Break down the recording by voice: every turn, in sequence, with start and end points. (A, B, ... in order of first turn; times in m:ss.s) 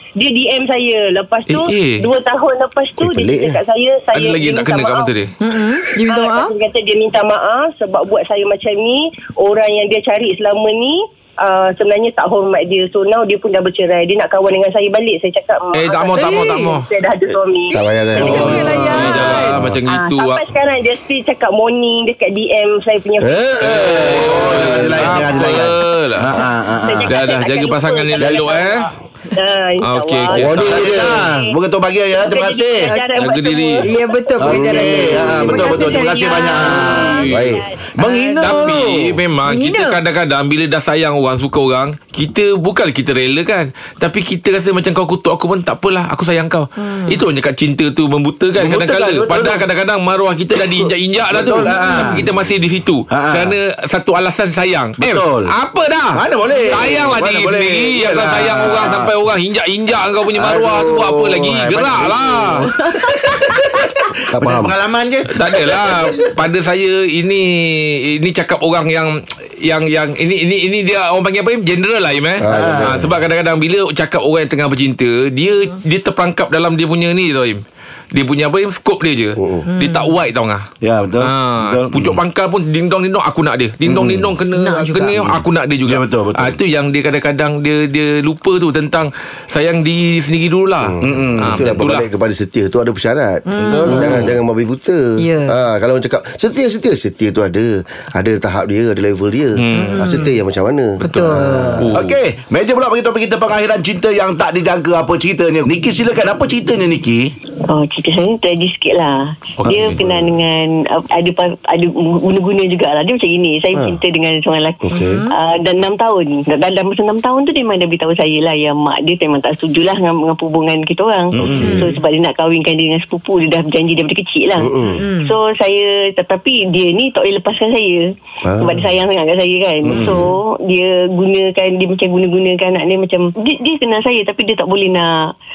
0:00.2-0:05.1 A
0:01.5-0:02.1 B
0:03.0-0:03.6 C
0:04.1-0:05.3 B
0:05.4-0:06.5 D
0:06.1-0:17.8 A
0:15.7-0:16.8 B
0:16.2-0:16.7 D
0:17.7-0:18.8 C
0:18.1-0:19.6 D
0:18.2-0:19.7 E
0:18.2-0:20.5 B
0:19.9-0:24.3 A
0:23.2-0:25.5 C
0:23.6-0:27.2 E
0:24.0-0:26.3 B
0:26.8-0:31.6 A
0:27.1-0:28.8 B
0:28.2-0:28.6 E
0:29.8-0:30.9 B
0:30.3-0:31.2 C
0:30.5-0:32.9 E
0:32.1-0:34.7 A
0:32.8-0:33.1 D
0:33.2-0:33.8 B
0:33.8-0:37.2 D
0:34.4-0:37.3 E
0:34.4-0:35.9 C
0:35.8-0:37.7 A
0:37.0-0:37.6 B
0:37.3-0:37.6 C
0:38.0-0:39.2 E
0:38.0-0:38.6 D
0:38.4-1:02.7 B
0:39.4-0:40.0 D
0:46.8-0:47.2 D
0:48.6-0:49.6 E
0:50.8-0:52.3 E
0:51.7-0:52.1 D
0:53.1-0:53.5 E
0:55.0-0:55.5 E
0:56.1-0:59.1 E
1:00.3-1:06.1 E
1:04.3-1:04.7 C
1:05.3-1:17.6 B
1:12.4-1:13.1 C
1:12.5-1:13.1 E
1:18.1-1:20.6 B
1:19.4-1:19.6 C
1:19.7-1:20.1 D
1:20.8-1:22.2 E
1:21.2-1:32.0 B
1:23.8-1:24.3 E
1:24.6-1:25.2 D
1:25.2-1:26.6 E
1:30.8-1:41.9 C
1:31.0-1:31.6 E
1:33.5-1:34.0 D
1:33.6-1:34.3 E
1:33.9-1:34.3 B
1:35.2-1:35.5 D
1:39.6-1:40.2 B
1:39.7-1:40.3 D
1:41.0-1:42.2 B
1:41.0-1:41.8 D
1:41.9-1:47.3 E
1:47.7-2:15.2 F
1:49.6-1:50.0 B
1:50.0-1:50.2 C
1:54.8-1:55.2 C
1:54.9-1:55.3 D
2:01.4-2:01.8 E
2:01.4-2:01.9 C
2:04.6-2:05.0 C
2:05.0-2:05.3 D
2:08.4-2:08.9 C
2:09.8-2:10.3 E
2:09.9-2:10.3 C